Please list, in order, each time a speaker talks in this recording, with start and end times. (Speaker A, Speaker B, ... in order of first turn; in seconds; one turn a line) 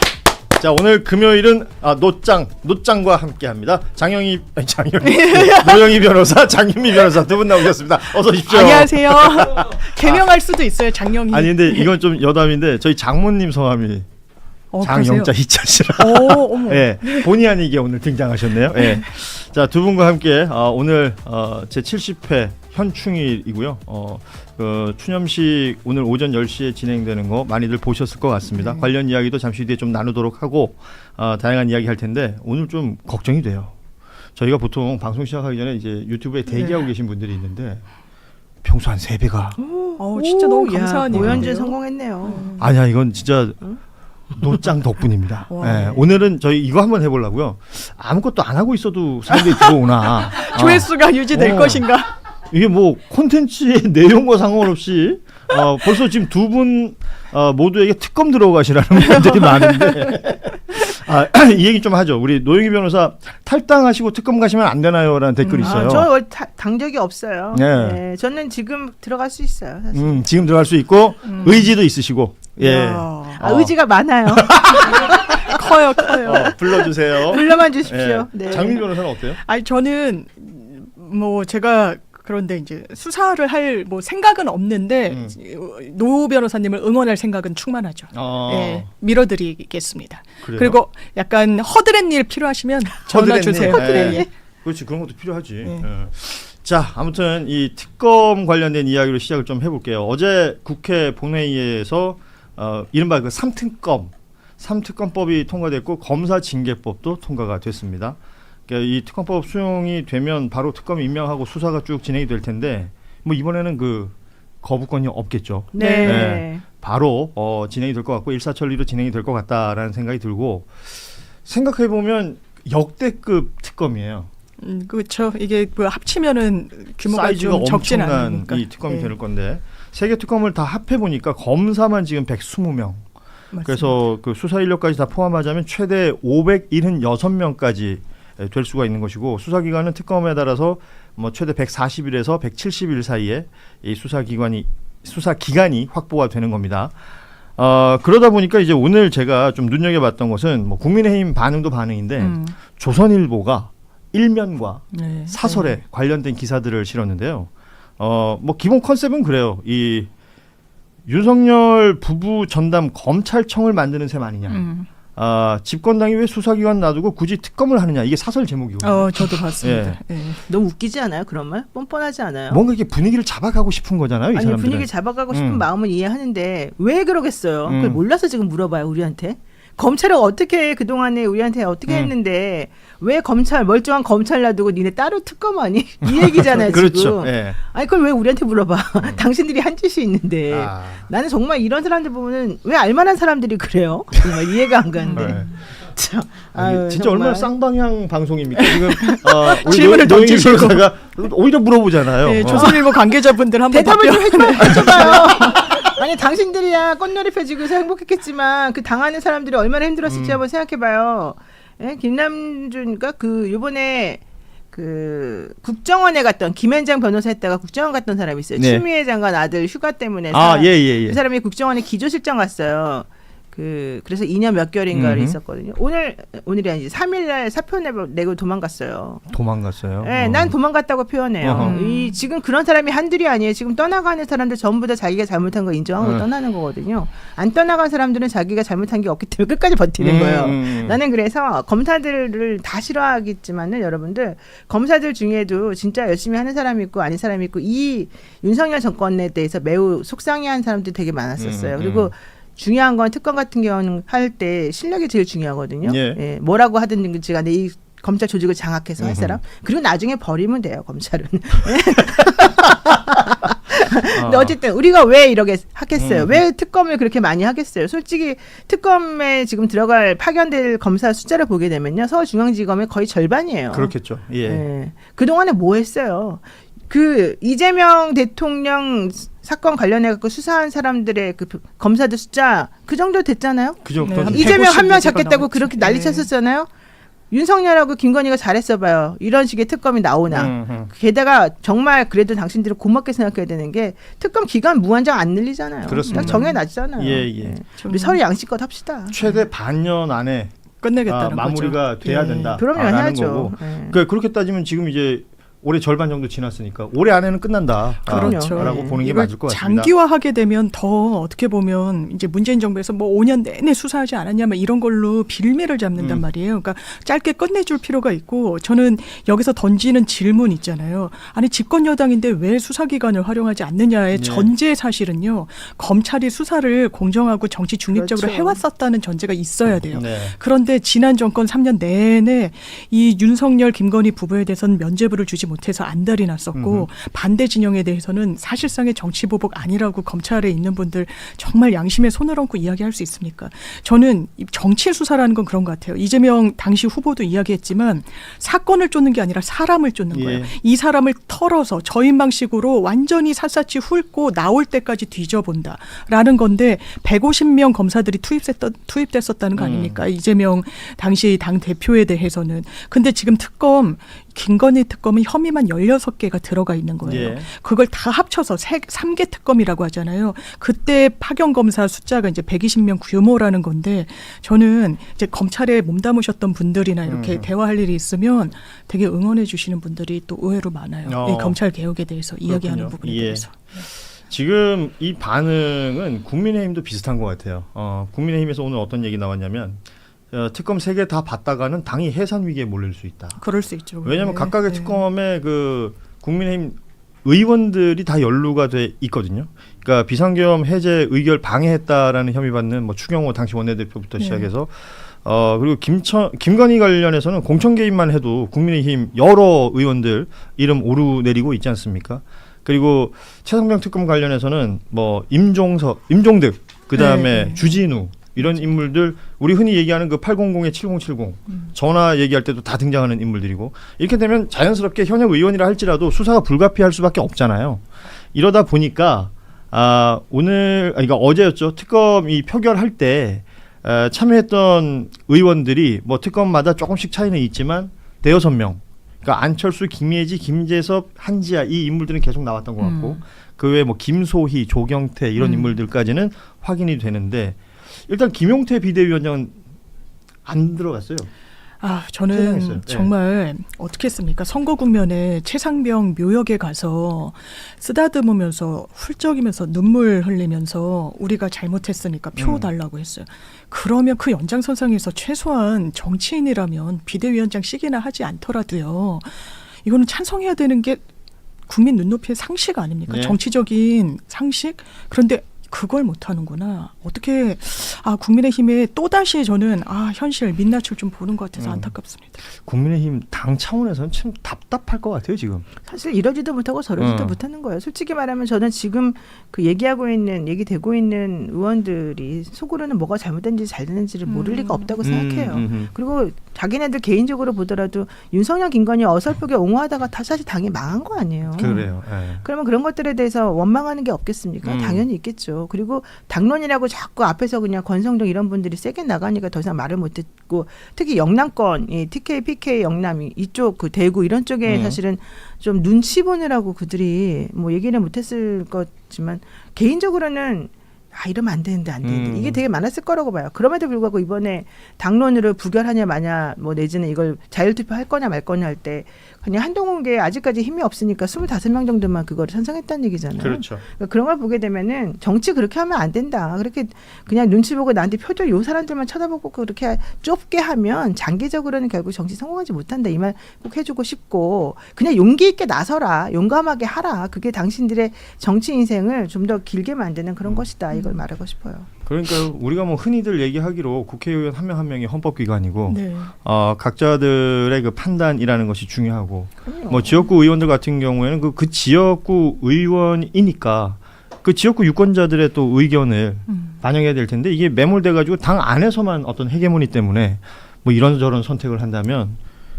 Speaker A: 0.6-10.2
Speaker B: 5.0-6.1
Speaker B: 8.4-11.9
Speaker A: 11.3-14.1
Speaker B: 14.7-15.3
Speaker A: 14.8-33.7
Speaker B: 15.9-17.3
Speaker B: 28.5-28.9
Speaker A: 34.4-37.8
Speaker B: 36.5-36.9
Speaker A: 38.6-39.6
Speaker C: 39.6-42.5
Speaker B: 40.0-42.7
Speaker A: 41.1-41.5
Speaker A: 42.6-43.7
Speaker A: 44.3-51.9
Speaker B: 45.5-46.0
Speaker B: 49.3-52.1
Speaker A: 52.5-66.1
Speaker B: 59.1-60.2
Speaker B: 65.4-66.0
Speaker C: 65.6-70.2
Speaker A: 67.5-68.0
Speaker A: 69.9-73.7
Speaker B: 71.2-71.7
Speaker B: 72.6-73.4
Speaker C: 73.4-75.6
Speaker A: 74.2-75.3
Speaker B: 74.9-77.5
Speaker A: 76.2-79.4
Speaker C: 77.3-78.8
Speaker B: 79.2-94.3
Speaker A: 85.1-85.3
Speaker A: 88.1-88.9
Speaker A: 90.4-90.8
Speaker A: 93.1-108.2
Speaker C: 93.6-94.3
Speaker A: 108.7-120.9
Speaker C: 115.7-116.6
Speaker B: 115.8-116.4
Speaker A: 121.4-124.3
Speaker B: 124.6-129.2
Speaker A: 127.0-133.0
Speaker B: 133.5-134.0
Speaker A: 133.6-146.9
Speaker A: 147.6-160.1
Speaker B: 152.2-152.6
Speaker B: 154.9-155.8
Speaker A: 161.1-170.0
Speaker B: 164.5-164.9
Speaker B: 168.8-170.4
Speaker C: 170.4-172.6
Speaker A: 172.5-175.6
Speaker C: 174.3-197.5
Speaker A: 177.7-178.0
Speaker A: 181.9-182.1
Speaker A: 186.1-187.6
Speaker A: 190.5-191.1
Speaker B: 195.0-195.4
Speaker A: 195.1-195.6
Speaker A: 196.5-202.8
Speaker B: 198.6-200.9
Speaker B: 202.2-205.8
Speaker C: 202.4-202.8
Speaker C: 203.7-229.3
Speaker A: 210.1-210.4
Speaker A: 218.6-218.8
Speaker A: 220.3-221.2
Speaker A: 224.9-225.4
Speaker A: 229.3-230.6
Speaker C: 230.0-273.9
Speaker A: 231.4-231.8
Speaker B: 231.5-232.2
Speaker A: 236.0-236.2
Speaker A: 240.0-241.0
Speaker A: 251.4-252.1
Speaker A: 255.8-256.2
Speaker A: 259.0-259.4
Speaker A: 264.1-264.5
Speaker A: 265.9-266.4
Speaker A: 273.7-274.6
Speaker C: 274.4-286.7
Speaker A: 283.8-284.6
Speaker B: 284.0-286.3
Speaker C: 287.3-299.1
Speaker A: 290.3-290.9
Speaker A: 295.9-297.6
Speaker B: 296.1-296.6
Speaker B: 297.8-298.2
Speaker A: 299.1-300.5
Speaker B: 300.8-302.6
Speaker A: 301.1-309.9
Speaker C: 302.5-304.0
Speaker B: 308.1-383.8
Speaker C: 308.1-309.0
Speaker A: 316.0-316.2
Speaker A: 324.1-324.5
Speaker C: 327.9-328.6
Speaker A: 329.9-330.4
Speaker A: 336.5-336.9
Speaker A: 350.1-350.5
Speaker A: 359.6-360.0
Speaker A: 367.0-367.5
Speaker A: 377.1-377.5
Speaker A: 381.1-381.6
Speaker A: 382.5-393.4
Speaker B: 393.4-395.0
Speaker A: 394.0-427.8
Speaker B: 404.2-404.5
Speaker B: 416.9-417.8
Speaker A: 428.3-449.6
Speaker B: 442.8-443.2
Speaker B: 445.4-445.7
Speaker A: 450.4-451.3
Speaker B: 451.8-471.0
Speaker A: 452.3-453.1
Speaker A: 462.4-462.7
Speaker B: 471.7-482.4
Speaker A: 473.1-473.4
Speaker A: 481.6-481.9
Speaker A: 482.4-485.6
Speaker C: 485.8-551.9
Speaker A: 487.0-487.4
Speaker B: 494.2-494.9
Speaker A: 495.0-495.9
Speaker A: 501.6-502.4
Speaker B: 501.6-501.8
Speaker A: 504.6-505.0
Speaker A: 514.6-515.0
Speaker A: 522.0-522.6
Speaker A: 533.4-533.8
Speaker B: 550.9-551.2
Speaker A: 552.0-572.4
Speaker B: 555.9-556.3
Speaker C: 559.6-560.1
Speaker B: 566.5-566.8